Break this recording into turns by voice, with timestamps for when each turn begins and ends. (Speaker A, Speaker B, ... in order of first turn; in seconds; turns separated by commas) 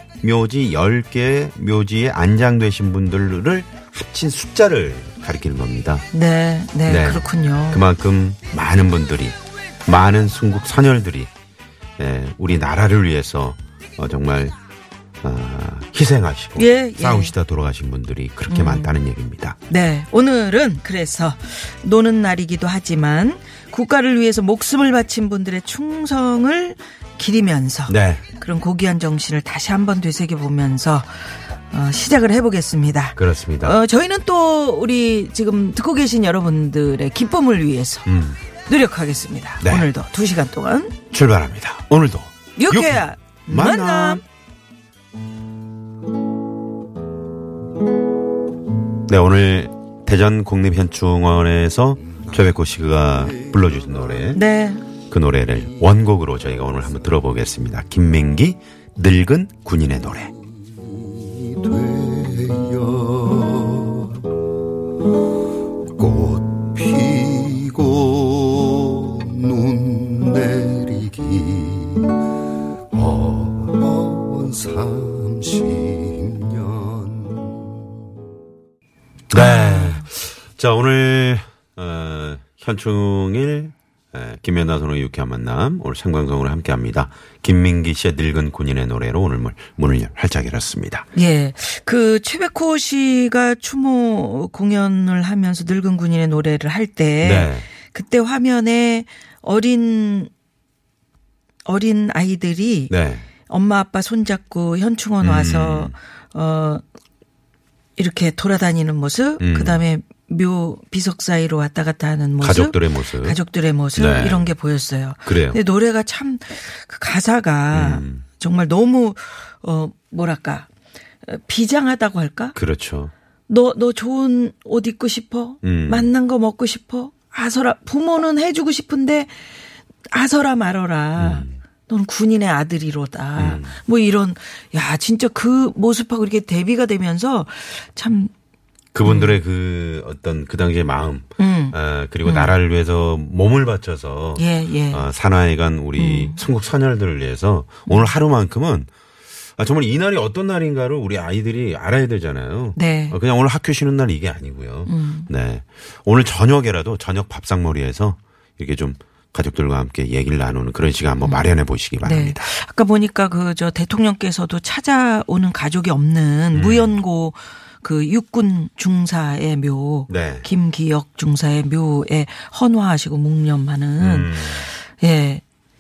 Speaker A: 0.2-6.0, Speaker B: 6.1-7.8, Speaker A: 6.9-11.3, Speaker A: 12.0-14.6, Speaker A: 15.2-19.6, Speaker B: 16.6-17.3, Speaker B: 18.5-18.9, Speaker B: 19.7-38.1, Speaker A: 27.9-28.2, Speaker A: 33.2-33.8, Speaker A: 38.1-38.4, Speaker B: 38.7-41.0, Speaker A: 39.6-39.9, Speaker A: 41.1-44.2, Speaker B: 42.6-44.2, Speaker A: 49.1-54.4, Speaker B: 54.3-54.8, Speaker A: 55.1-60.3, Speaker C: 61.5-64.1, Speaker C: 66.0-72.0, Speaker C: 73.1-77.5, Speaker A: 79.3-91.1, Speaker B: 79.3-80.1, Speaker B: 91.2-100.3, Speaker A: 97.2-97.7, Speaker B: 101.7-102.9, Speaker A: 102.9-103.3, Speaker B: 103.5-106.8, Speaker A: 105.2-106.0, Speaker B: 108.0-120.7, Speaker A: 109.4-109.8, Speaker A: 112.4-113.4, Speaker A: 114.0-114.5, Speaker A: 115.3-115.6, Speaker A: 117.7-118.2, Speaker B: 121.2-122.6, Speaker A: 122.5-123.1, Speaker B: 123.5-129.3, Speaker A: 125.6-126.1, Speaker B: 130.1-138.3, Speaker A: 131.2-131.6, Speaker A: 133.4-133.8, Speaker A: 138.9-148.9, Speaker B: 139.0-139.4, Speaker B: 141.4-142.6, Speaker B: 144.4-145.1, Speaker B: 146.0-146.4, Speaker A: 149.6-162.5, Speaker B: 152.8-153.2, Speaker B: 154.9-155.3, Speaker B: 161.2-161.5, Speaker B: 162.0-175.4, Speaker A: 166.5-167.0, Speaker A: 170.1-170.5, Speaker A: 174.0-174.7